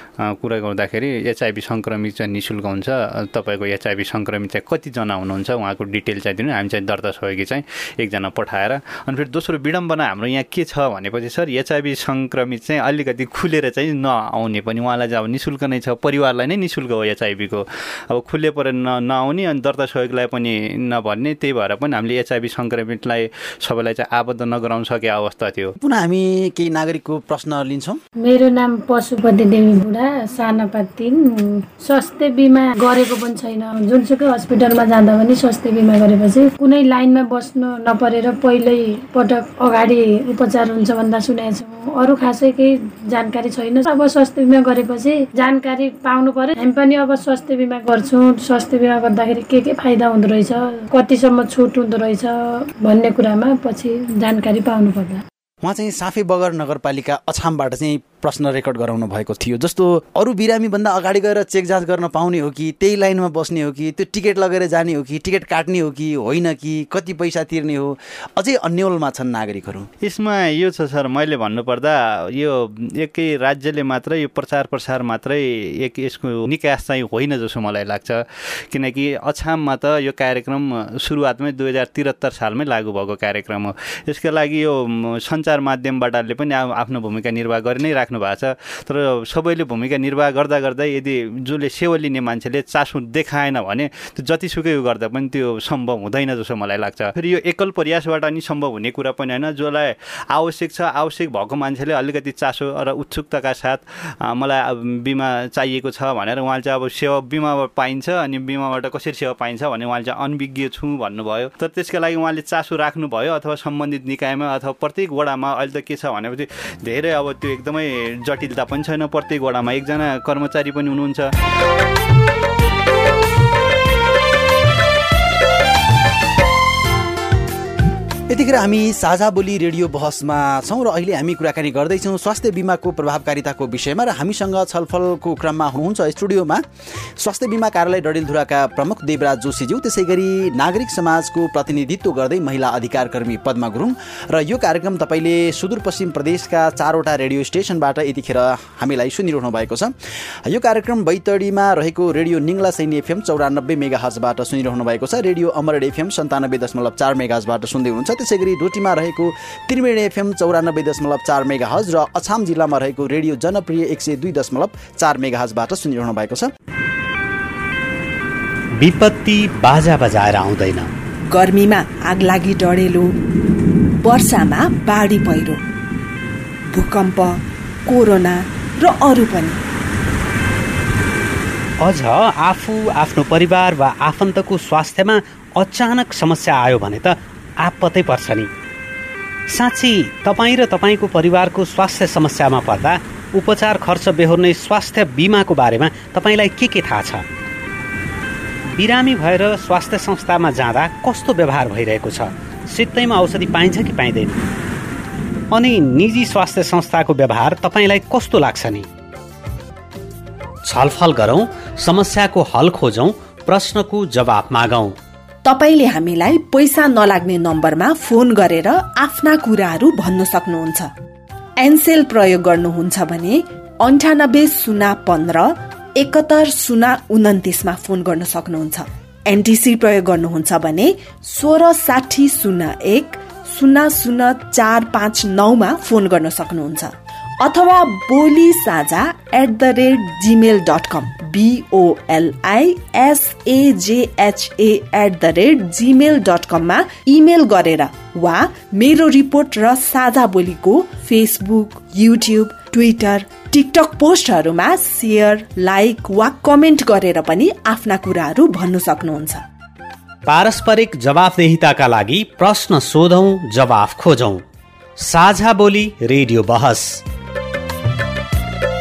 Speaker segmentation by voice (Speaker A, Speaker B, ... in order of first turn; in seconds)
Speaker A: 0.2-25.7, 70.0-121.3
Speaker B: 25.8-28.0, 55.6-69.9, 128.3-136.6, 137.2-149.9, 150.5-166.5
Speaker C: 28.2-55.2
Speaker D: 168.8-170.9, 181.8-188.5, 189.5-197.2, 198.7-204.4, 205.5-208.9, 210.6-215.0, 260.2-264.4, 265.0-267.0
Speaker E: 171.3-173.1, 174.0-175.6, 176.7-179.6, 215.4-220.9, 221.6-259.4